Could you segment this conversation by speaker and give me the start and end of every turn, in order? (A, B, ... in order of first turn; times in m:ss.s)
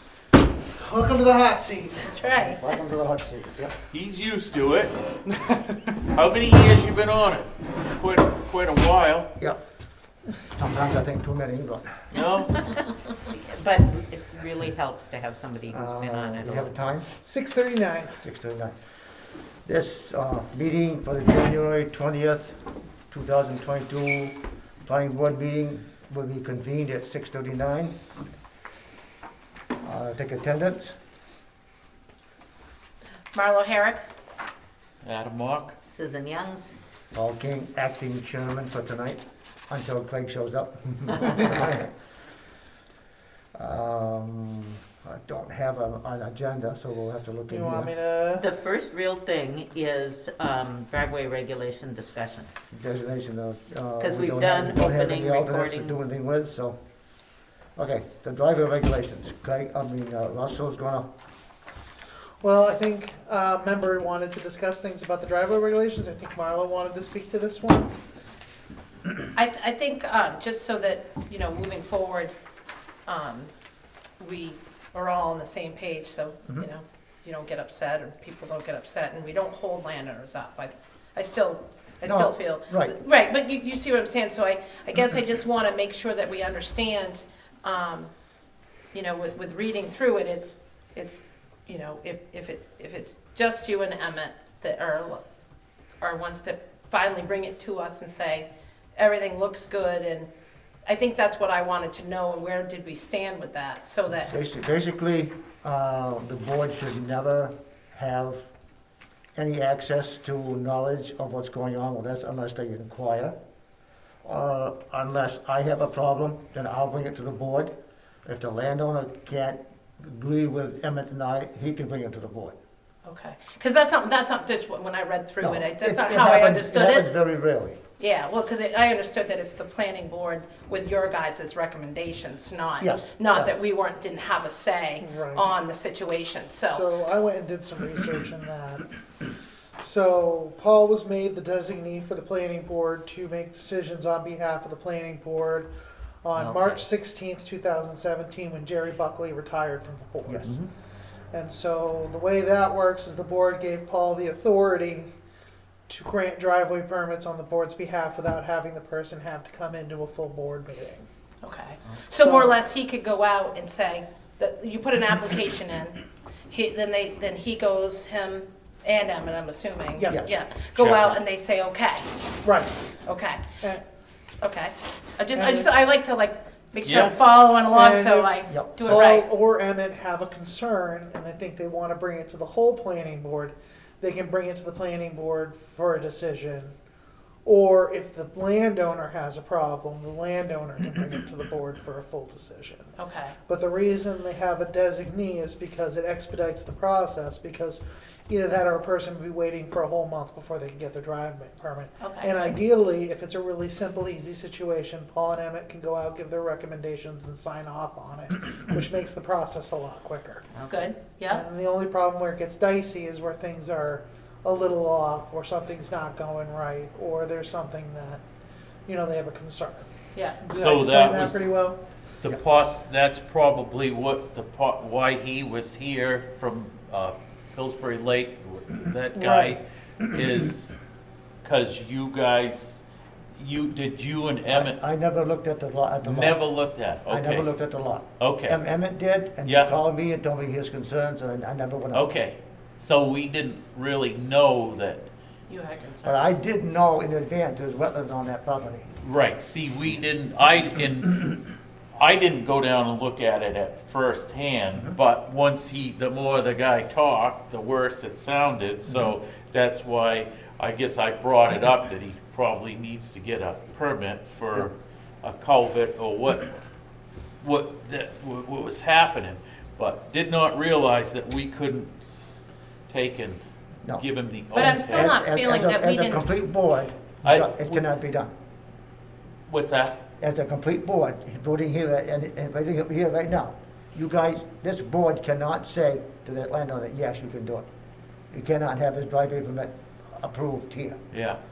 0:00.7-0:02.1 A
0:02.0-0:02.6 B
0:02.5-0:03.8 C
0:03.9-0:05.0 D
0:06.1-0:09.3 D
0:10.6-0:12.0 C
0:12.1-0:12.6 D
0:13.3-0:16.7 E
0:15.7-0:17.1 C
0:17.2-0:18.2 A
0:18.2-0:18.8 C
0:19.6-0:22.6 C
0:23.1-0:28.0 C
0:29.8-0:31.0 C
0:33.3-0:34.0 B
0:35.0-0:35.8 D
0:35.9-0:36.7 E
0:37.1-0:41.9 C
0:43.6-0:47.9 C
0:47.5-0:48.5 A
0:48.4-0:52.5 E
0:52.7-0:56.8 C
0:54.0-0:56.0 E
0:57.8-1:01.1 C
1:02.4-1:08.0 A
1:09.4-1:12.3 B
1:13.1-1:13.5 B
1:14.2-1:28.1 B
1:22.0-1:23.0 C
1:28.9-1:35.2 B
1:36.0-1:40.3 B
1:40.9-1:44.3 B
1:44.2-1:48.4 C
1:49.4-1:53.4 C
1:54.2-1:57.7 C
1:58.2-2:02.6 C
2:03.0-2:07.1 B
2:05.4-2:07.8 C
2:08.0-2:16.9 B
2:12.8-2:13.5 C
2:15.0-2:15.5 A
2:16.7-2:18.9 A
2:19.8-2:25.7 A
2:26.2-2:30.4 A
2:30.2-2:30.5 C
2:30.4-2:30.7 D
2:31.3-2:35.1 A
2:35.9-2:41.1 A
2:41.4-2:52.1 B
2:42.2-2:42.6 A
2:50.0-2:50.2 A
2:50.8-2:51.2 D
2:52.4-2:52.7 A
2:53.0-2:53.4 B
2:54.4-2:59.3 B
2:55.3-2:55.7 A
2:56.8-2:57.1 D
2:57.6-3:06.7 A
2:58.5-2:59.0 C
3:07.4-3:12.9 A
3:13.0-3:13.4 B
3:13.5-3:30.4 A
3:22.0-3:22.4 B
3:30.5-3:30.9 E
3:30.7-3:31.4 B
3:31.3-3:38.2 A
3:38.9-3:39.9 A
3:40.2-3:40.4 B
3:40.4-3:41.8 A
3:40.5-3:41.5 D
3:42.2-3:50.8 D
3:49.1-3:49.6 A
3:51.4-3:52.8 D
3:53.4-3:54.8 D
3:54.5-3:56.4 C
3:56.0-3:57.5 D
3:57.1-4:02.1 C
3:58.2-3:58.6 D
3:59.4-3:59.7 D
4:01.9-4:05.0 D
4:05.5-4:06.4 B
4:06.0-4:08.9 C
4:09.0-4:11.4 D
4:12.0-4:26.6 D
4:27.4-4:33.4 D
4:34.0-4:35.1 D
4:34.5-4:36.3 B
4:34.6-4:38.3 C
4:37.2-4:37.8 D
4:39.5-4:40.0 D
4:40.2-4:47.7 C
4:48.3-4:51.0 C
4:51.1-4:51.4 D